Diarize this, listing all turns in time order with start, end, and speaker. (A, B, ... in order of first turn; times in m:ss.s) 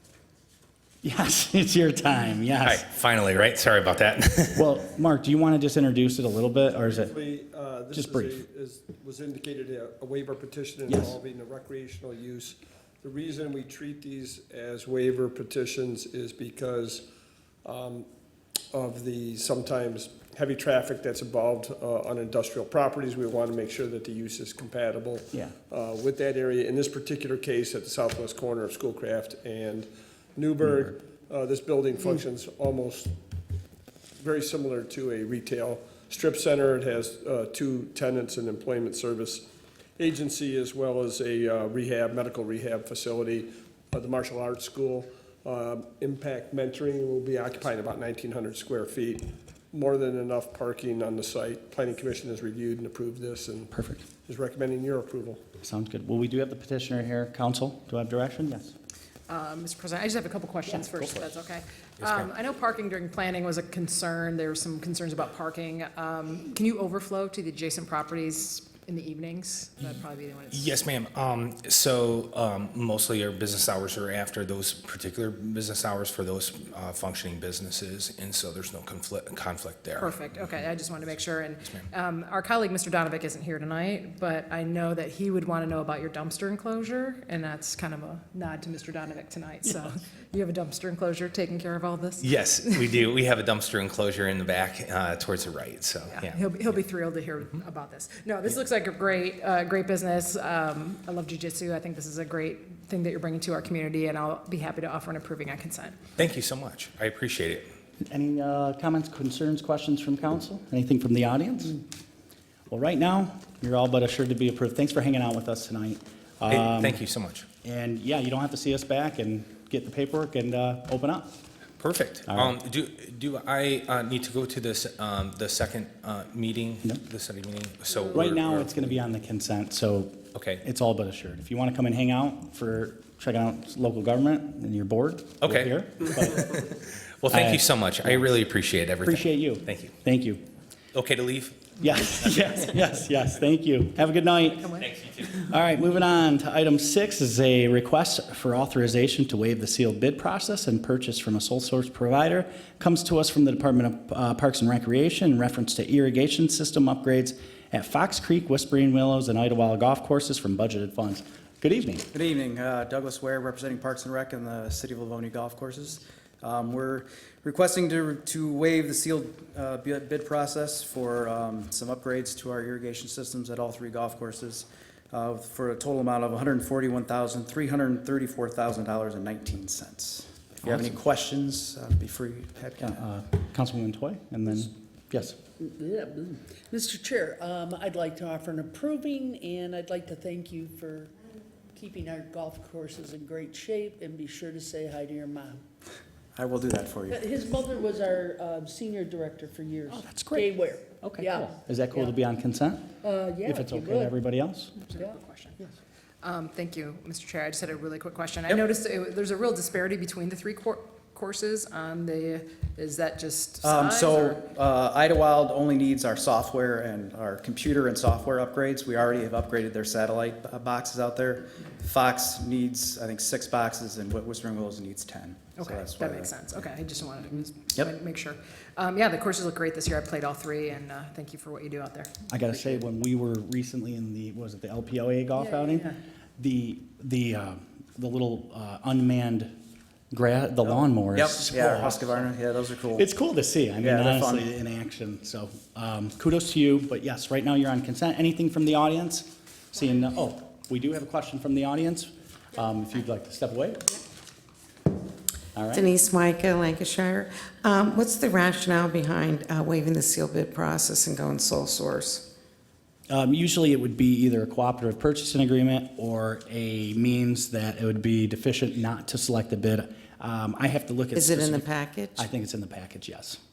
0:01.0-0:02.8 A
0:02.6-0:04.6 B
0:04.6-0:07.1 A
0:06.8-0:17.0 C
0:07.9-0:08.4 A
0:10.9-0:11.2 A
0:17.6-0:18.1 C
0:18.7-0:33.1 C
0:34.2-0:39.4 C
0:40.0-0:53.7 C
0:53.7-0:54.0 A
0:54.3-0:55.4 C
0:55.6-0:58.8 A
0:59.3-1:10.8 D
1:00.7-1:01.2 A
1:02.0-1:02.3 B
1:10.5-1:20.2 B
1:20.0-1:32.3 D
1:32.2-1:36.4 B
1:36.1-1:46.0 D
1:46.2-1:47.7 B
1:48.0-1:51.8 A
1:52.7-1:57.0 A
1:56.5-1:57.5 B
1:57.6-2:01.3 A
2:01.8-2:09.0 B
2:02.3-2:02.5 A
2:08.1-2:16.6 A
2:10.4-2:10.6 B
2:15.4-2:19.9 B
2:17.3-2:18.3 A
2:19.0-2:20.4 A
2:20.9-2:22.7 B
2:21.8-2:24.8 A
2:24.8-2:25.2 B
2:25.3-2:42.1 A
2:42.1-3:03.0 E
3:00.6-3:01.0 A
3:02.8-3:05.4 A
3:05.6-3:11.1 F
3:11.7-3:15.6 F
3:16.4-3:17.2 E
3:17.1-3:22.0 F
3:19.9-3:22.9 A
3:23.0-3:24.2 F
3:23.4-3:24.7 A
3:24.8-3:25.6 D
3:26.2-3:34.4 D
3:33.6-3:46.3 E
3:45.6-3:52.1 D
3:52.3-3:59.5 A
4:00.1-4:02.2 A
4:01.1-4:03.1 E
4:03.0-4:14.0 A
4:03.8-4:04.5 E
4:15.6-4:15.9 A
4:15.7-4:22.3 G
4:23.1-4:33.4 A
4:31.1-4:32.2 G